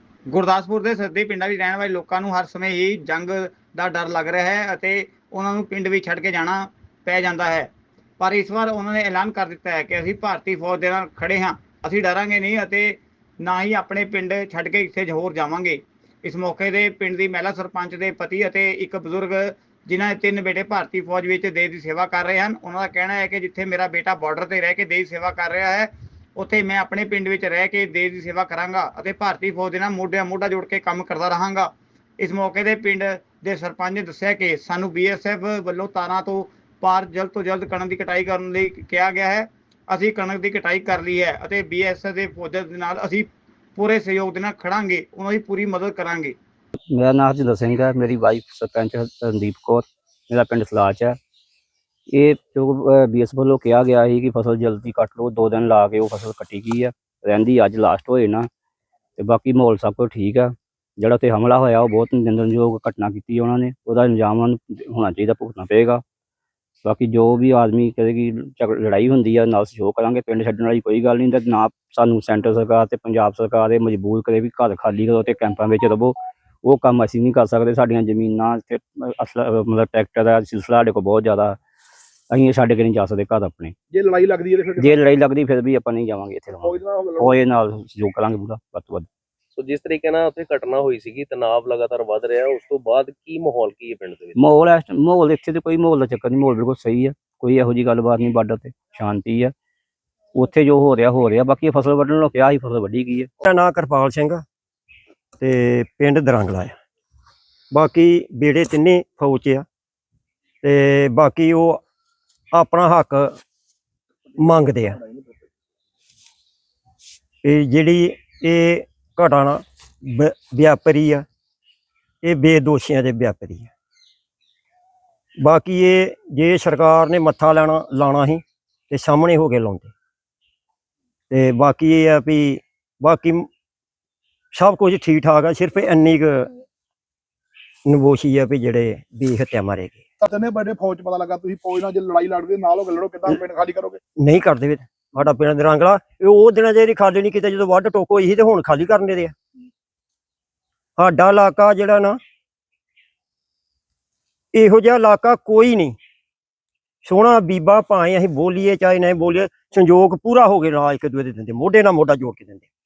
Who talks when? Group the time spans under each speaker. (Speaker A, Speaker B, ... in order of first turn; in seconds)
Speaker A: 0.3-46.4
Speaker B: 46.9-51.2, 52.1-58.5, 59.2-66.0, 66.8-81.6, 82.3-83.7, 84.8-89.1, 94.3-99.5, 100.3-103.3
Speaker C: 83.9-85.0, 86.6-87.4, 140.2-144.0
Speaker D: 89.5-94.4
Speaker E: 103.4-104.4, 105.4-106.7, 107.7-109.6, 110.6-111.8, 112.5-113.3, 114.4-115.0, 117.4-121.2, 122.2-123.7, 125.4-129.9, 131.3-133.5, 134.5-136.5, 137.8-140.0, 144.2-149.3, 151.0-152.2, 154.5-155.9, 157.0-162.6